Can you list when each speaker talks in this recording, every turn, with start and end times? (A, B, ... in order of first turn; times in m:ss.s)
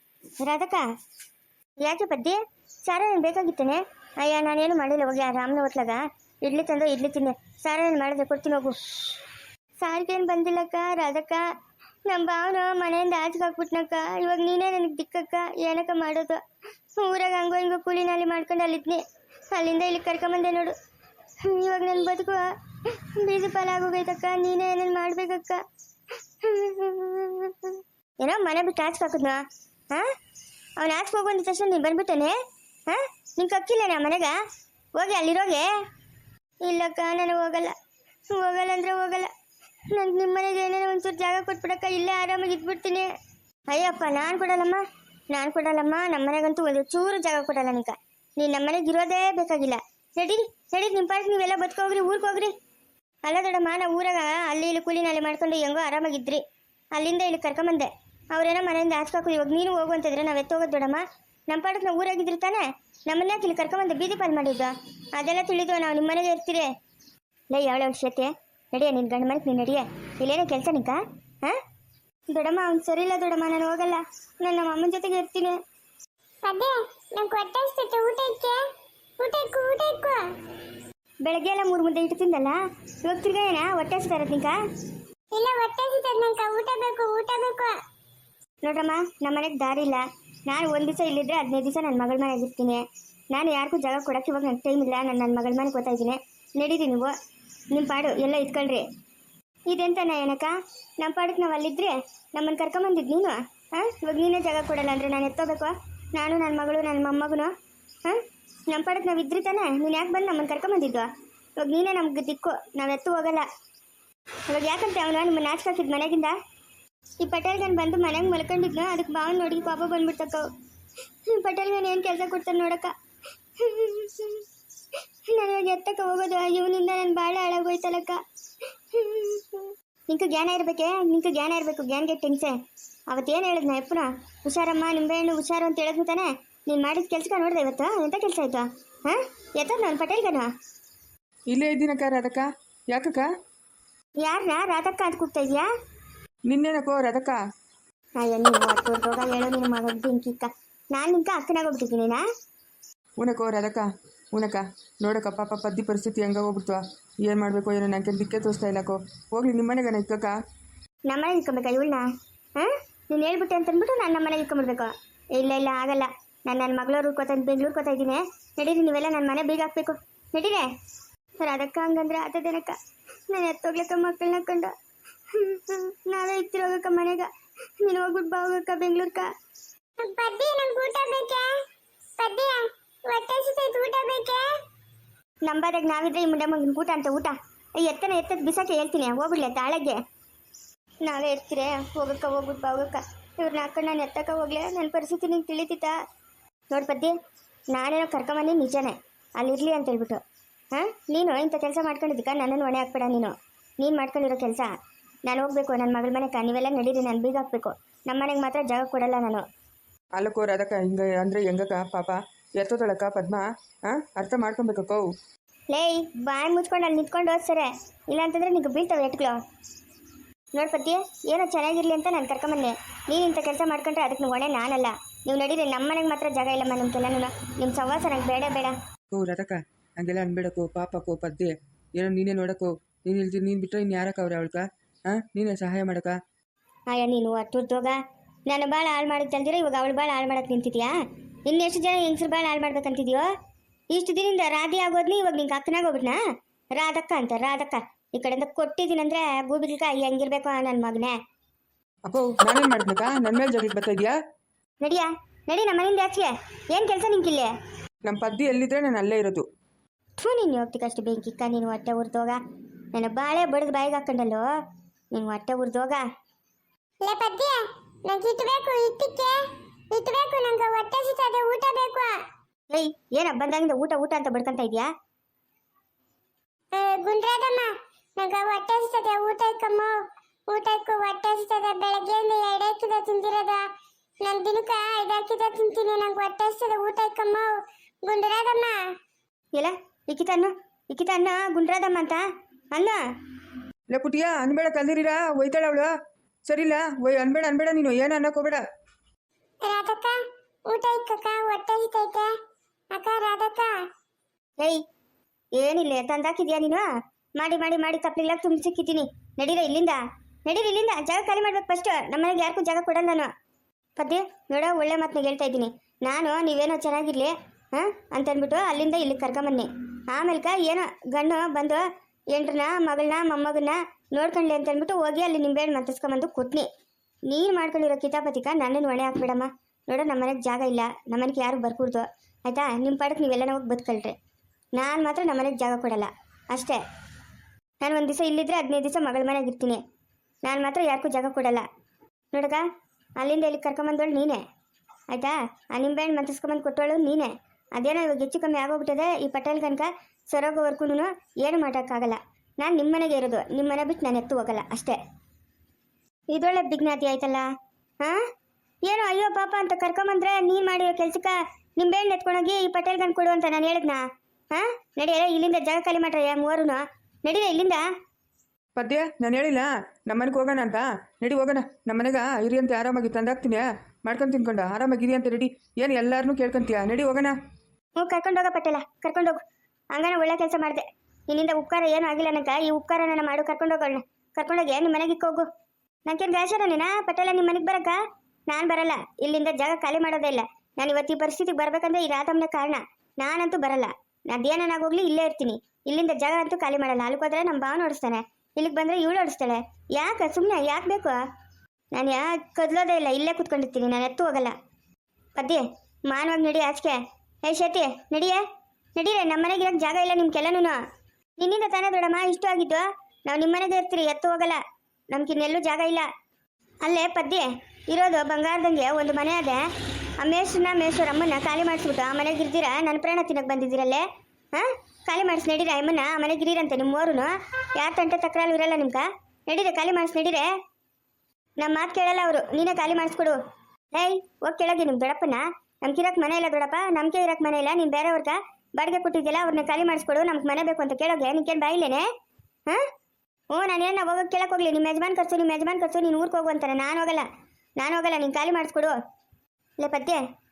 0:00.4-0:00.8 A
0:01.8-0:08.8 A
0:09.8-0:11.5 A
0:12.1-0:16.4 A
0:17.0-0:20.8 A
0:21.4-0:25.6 A
0:26.4-0:30.1 A
0:30.8-0:32.4 A
0:32.9-0:34.4 A
0:35.0-0:35.7 A
0:36.6-0:37.8 A
0:38.3-0:39.3 A
0:39.9-0:43.1 A
0:43.7-0:52.5 A
0:53.2-0:56.4 A
0:57.0-1:06.7 A
1:07.5-1:11.6 A
1:12.3-1:15.6 A
1:16.4-1:18.6 B
1:19.2-1:20.2 B
1:21.2-1:24.6 A
1:25.3-1:27.8 B
1:28.6-1:37.1 A
1:37.7-1:38.9 A
1:39.7-1:47.5 A
1:48.0-1:53.5 A
1:54.5-1:56.4 A
1:57.2-2:00.5 A
2:01.3-2:02.9 A
2:03.6-2:04.4 A
2:05.3-2:08.2 A
2:08.9-2:12.6 A
2:13.1-2:20.5 A
2:21.5-2:23.3 C
2:24.2-2:25.7 A
2:26.5-2:27.4 C
2:28.2-2:32.2 A
2:33.2-2:40.4 C
2:41.1-2:42.0 A
2:42.6-2:50.7 A
2:51.4-2:52.8 A
2:53.3-2:54.7 A
2:55.3-2:57.3 A
2:57.8-2:59.3 A
3:00.0-3:01.5 B
3:02.2-3:04.5 B
3:05.5-3:10.0 A
3:11.0-3:16.0 A
3:16.7-3:17.1 A
3:17.7-3:20.2 A
3:20.7-3:24.7 A
3:25.3-3:29.5 A
3:30.2-3:35.0 C
3:35.7-3:39.4 A
3:40.6-3:48.8 A
3:49.1-3:56.2 C
3:56.9-4:00.9 A
4:01.5-4:03.3 A
4:03.9-4:06.2 A
4:06.8-4:11.2 A
4:12.1-4:14.2 C
4:14.8-4:17.5 A
4:18.0-4:19.5 C
4:20.2-4:22.4 A
4:22.9-4:24.4 A
4:25.1-4:26.0 A
4:27.0-4:32.2 B
4:32.7-4:34.9 A
4:36.7-4:40.0 B
4:40.5-4:43.6 B
4:44.2-4:48.8 B
4:49.6-4:53.0 A
4:53.9-4:55.9 C
4:56.5-4:58.6 C
4:59.6-5:02.3 B
5:02.9-5:03.7 B
5:05.6-5:06.8 A
5:07.4-5:13.3 A
5:14.0-5:26.7 A
5:27.3-5:34.2 A
5:34.8-5:36.8 A
5:37.8-5:39.8 A
5:40.4-5:41.7 A
5:42.3-5:42.6 A
5:43.2-5:44.4 A
5:45.1-5:55.0 A
5:56.3-5:57.5 A
5:58.8-6:07.8 A
6:08.8-6:17.4 C
6:18.0-6:19.4 A
6:19.9-6:25.5 A
6:26.1-6:41.2 A
6:41.9-6:44.5 A
6:45.4-6:48.4 A
6:49.0-6:50.8 A
6:51.4-6:54.6 A
6:55.1-6:56.1 A
6:56.8-6:59.6 A
7:00.2-7:10.5 A
7:11.6-7:13.4 A
7:13.9-7:22.1 A
7:23.5-7:27.3 A
7:27.8-7:28.9 A
7:29.8-7:30.2 A